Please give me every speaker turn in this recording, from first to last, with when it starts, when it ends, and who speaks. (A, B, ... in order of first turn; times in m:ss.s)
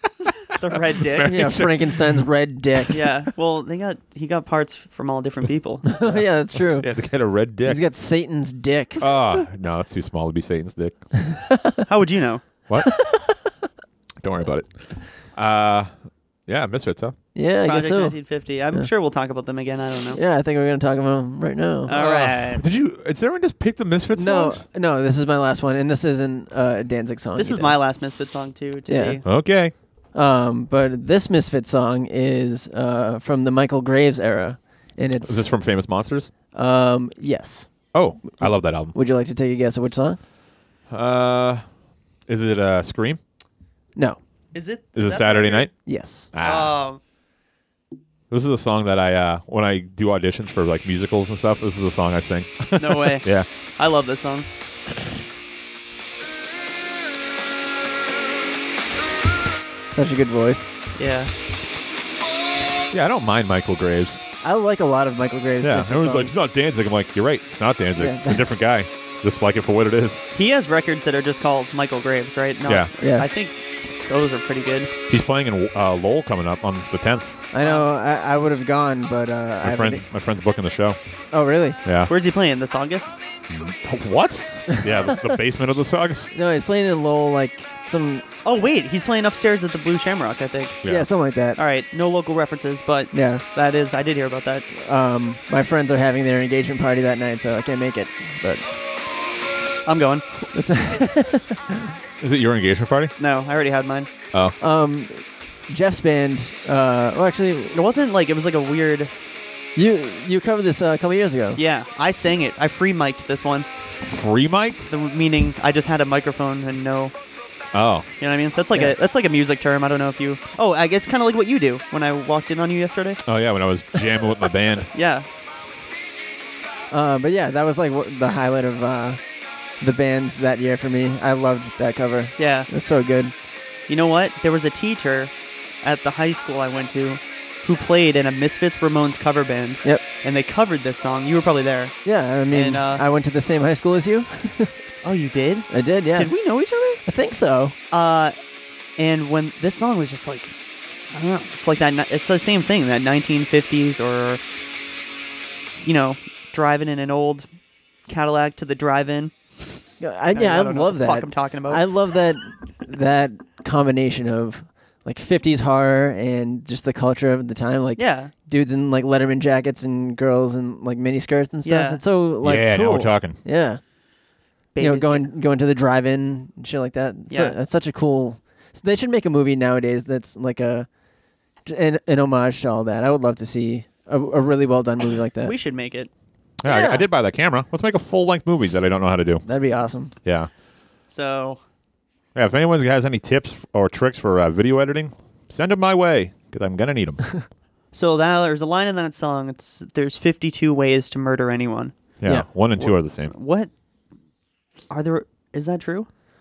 0:00.6-0:01.4 A
0:01.0-0:02.2 B
0:01.2-0:03.0 C
0:02.9-0:05.9 A
0:05.9-0:06.9 C
0:06.7-0:07.8 B
0:07.6-0:09.0 C
0:09.0-0:11.0 B
0:11.3-0:11.8 C
0:11.9-0:12.4 A
0:12.7-0:12.9 B
0:12.8-0:13.4 C
0:14.2-0:14.7 B
0:15.2-0:15.9 B
0:16.5-0:17.2 B
0:17.3-0:18.2 C
0:17.6-0:20.2 A
0:20.1-0:22.0 C
0:21.9-0:22.6 A
0:21.9-0:24.6 B
0:24.1-0:27.8 C
0:27.4-0:29.2 A
0:28.9-0:29.2 C
0:29.2-0:29.7 B
0:30.1-0:35.5 C
0:35.2-0:36.3 B
0:36.5-0:37.7 C
0:37.9-0:38.9 B
0:38.9-0:40.2 C
0:40.9-0:41.6 B
0:42.3-0:43.2 B
0:44.5-0:45.7 A
0:45.0-0:45.7 B
0:45.9-0:46.3 C
0:46.3-0:46.7 B
0:46.4-0:47.0 A
0:48.3-0:53.5 B
0:52.8-0:54.5 A
0:59.9-1:00.7 C
1:01.0-1:01.3 A
1:02.9-1:04.2 B
1:04.4-1:06.3 C
1:05.6-1:10.2 B
1:08.0-1:08.4 C
1:10.3-1:14.9 A
1:13.0-1:13.2 C
1:15.1-1:17.3 B
1:17.5-1:20.0 C
1:19.6-1:21.0 B
1:21.3-1:21.8 C
1:21.8-1:22.1 B
1:22.1-1:23.1 A
1:23.5-1:26.3 B
1:26.3-1:28.2 C
1:28.4-1:30.8 A
1:30.8-1:31.1 B
1:30.9-1:31.6 C
1:31.6-1:34.7 A
1:33.1-1:33.4 C
1:34.7-1:38.6 C
1:39.9-1:40.2 A
1:40.5-1:41.9 C
1:42.2-1:43.1 B
1:43.2-1:44.1 A
1:44.6-1:47.8 C
1:47.7-1:49.1 A
1:49.8-1:51.6 C
1:51.6-1:53.7 A
1:54.0-1:54.9 B
1:54.9-1:57.1 A
1:57.7-1:58.1 B
1:58.2-2:03.2 A
2:03.2-2:04.9 B
2:04.9-2:05.3 A
2:06.9-2:09.2 C
2:09.8-2:13.3 C
2:12.4-2:12.7 A
2:13.9-2:15.3 A
2:15.8-2:23.0 A
2:22.0-2:24.8 C
2:25.0-2:27.0 A
2:25.7-2:26.3 C
2:27.0-2:27.7 C
2:27.9-2:28.3 A
2:29.0-2:30.5 A
2:31.1-2:34.4 A
2:35.8-2:37.5 A
2:38.1-2:39.3 A
2:40.0-2:53.8 C
2:40.3-2:41.8 A
2:48.0-2:48.3 A
2:51.6-2:52.0 A
2:52.4-2:53.4 B
2:54.7-2:55.3 A
2:54.8-3:00.9 C
3:01.6-3:05.5 C
3:05.4-3:06.1 A
3:06.6-3:09.4 B
3:06.7-3:07.0 C
3:09.4-3:10.1 C
3:10.2-3:10.5 B
3:11.1-3:11.6 A
3:12.3-3:17.3 B
3:17.9-3:21.9 A
3:22.2-3:23.3 B
3:22.8-3:23.7 A
3:24.9-3:26.1 A